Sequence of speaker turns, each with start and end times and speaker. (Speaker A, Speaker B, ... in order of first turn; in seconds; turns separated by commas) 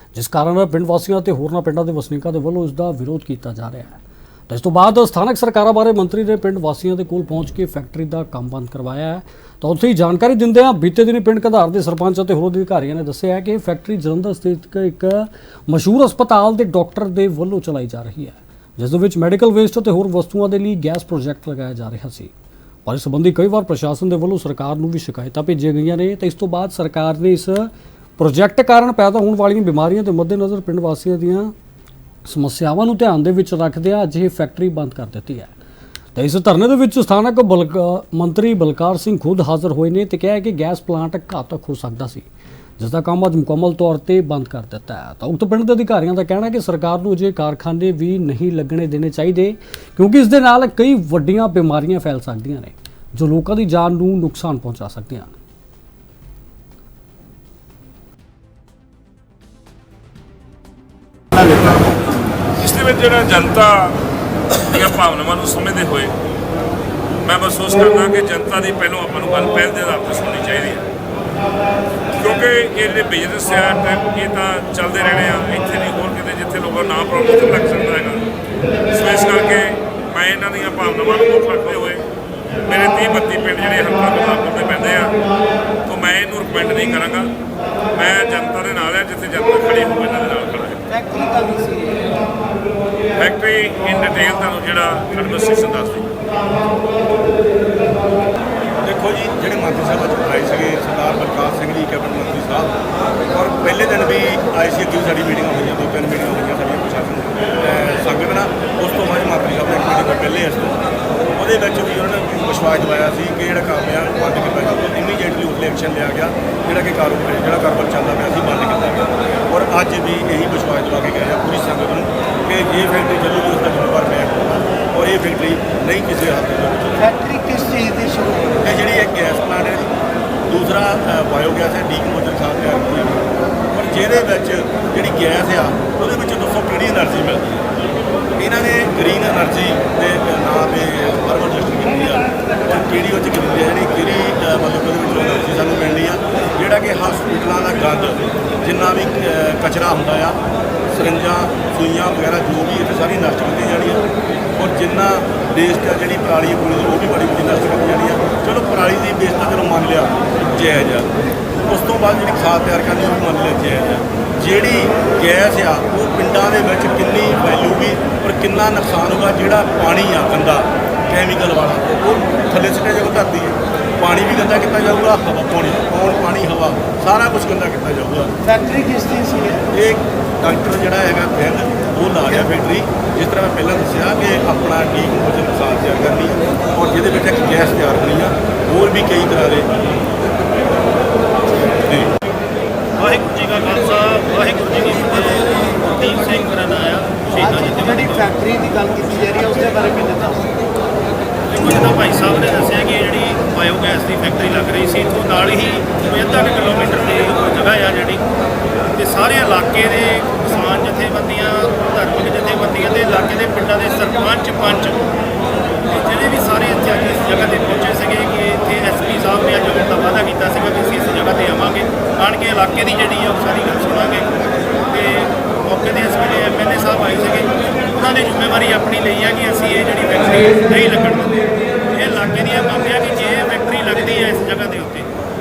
Speaker A: 0.1-22.3, Speaker A: 22.9-31.5, Speaker A: 32.2-35.5, Speaker A: 36.1-42.3, Speaker A: 42.8-55.3, Speaker B: 62.6-64.0, Speaker B: 64.5-66.1, Speaker B: 67.2-70.8, Speaker B: 72.1-78.2, Speaker B: 78.9-82.0, Speaker B: 82.6-85.2, Speaker B: 85.8-87.3, Speaker B: 87.9-90.8, Speaker C: 90.9-92.1, Speaker B: 93.1-96.1, Speaker D: 98.8-102.7, Speaker D: 103.3-127.0, Speaker C: 127.0-128.6, Speaker D: 128.6-129.9, Speaker D: 130.5-137.6, Speaker D: 138.4-150.4, Speaker D: 150.9-154.1, Speaker D: 154.6-178.3, Speaker C: 178.4-179.6, Speaker D: 179.7-189.7, Speaker D: 191.8-192.1, Speaker E: 192.9-198.3, Speaker C: 197.4-200.6, Speaker E: 201.5-208.2, Speaker E: 208.8-215.1, Speaker E: 215.9-224.3, Speaker E: 224.9-235.1